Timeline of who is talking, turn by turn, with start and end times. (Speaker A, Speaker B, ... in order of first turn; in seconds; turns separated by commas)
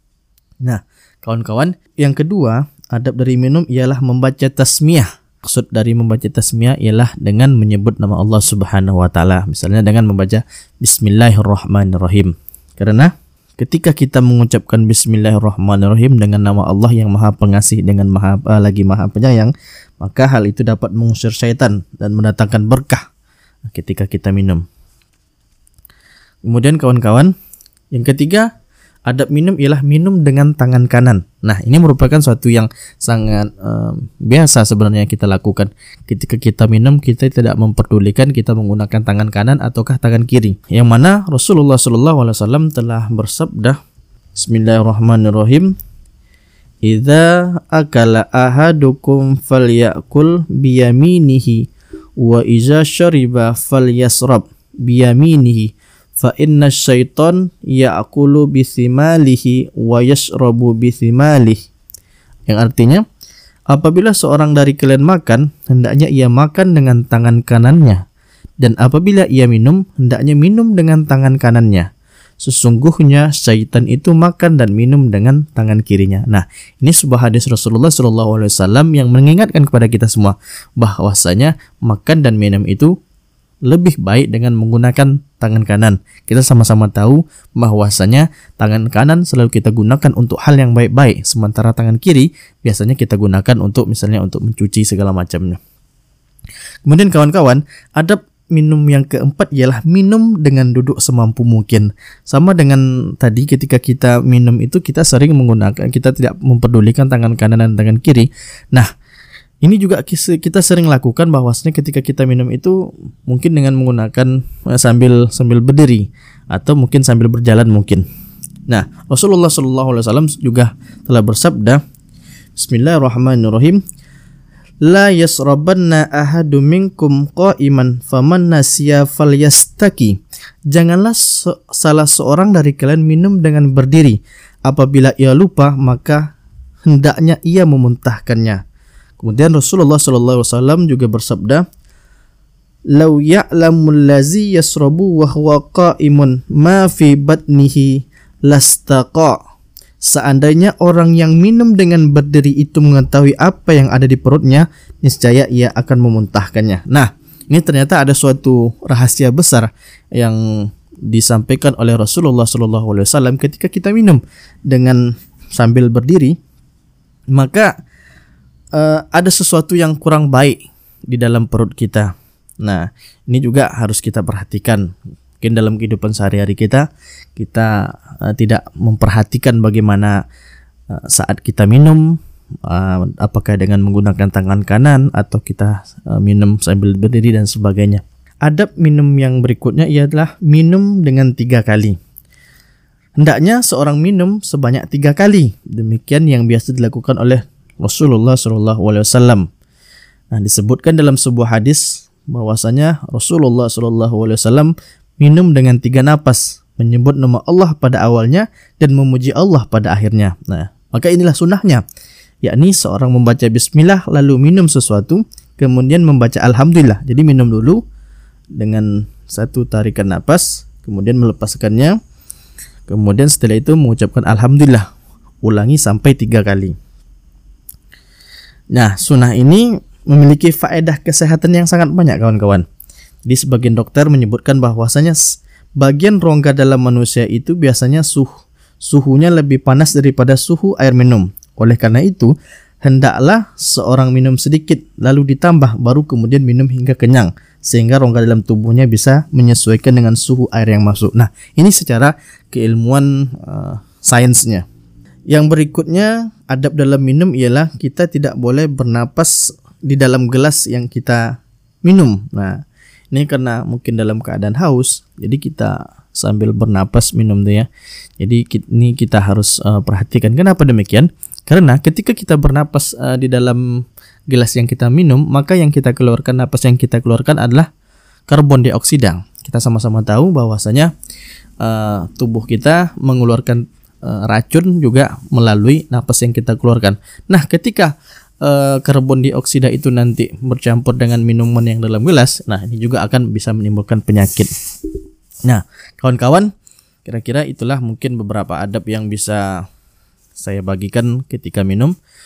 Speaker A: 0.6-23.0, Speaker A: 23.7-24.6, Speaker A: 26.4-27.3, Speaker A: 27.9-28.5, Speaker A: 29.1-43.8, Speaker A: 44.3-45.7, Speaker A: 46.8-61.6, Speaker A: 62.5-63.0, Speaker A: 63.7-68.0, Speaker A: 68.6-71.9, Speaker A: 72.4-82.9, Speaker A: 83.7-95.6, Speaker A: 96.8-108.9, Speaker A: 109.6-112.8, Speaker A: 113.3-118.0, Speaker A: 118.7-121.8, Speaker A: 122.5-123.8, Speaker A: 124.8-130.2, Speaker A: 130.7-136.3, Speaker A: 136.9-138.6, Speaker A: 139.2-141.6, Speaker A: 142.9-149.4, Speaker A: 150.0-160.4, Speaker A: 161.1-165.0, Speaker A: 165.6-166.3, Speaker A: 167.3-167.7, Speaker A: 168.7-172.1, Speaker A: 172.6-174.8, Speaker A: 175.4-180.2, Speaker A: 180.9-192.0, Speaker A: 193.2-199.5, Speaker A: 200.3-211.8, Speaker A: 212.4-217.8, Speaker A: 218.6-222.0, Speaker A: 222.9-224.9, Speaker A: 225.4-226.8, Speaker A: 228.7-232.7, Speaker A: 233.3-254.6, Speaker A: 255.3-262.6, Speaker A: 263.1-267.7, Speaker A: 268.2-273.6, Speaker A: 274.3-277.7, Speaker A: 278.3-280.9, Speaker A: 281.6-294.5, Speaker A: 295.4-296.5, Speaker A: 297.0-299.6, Speaker A: 300.4-301.9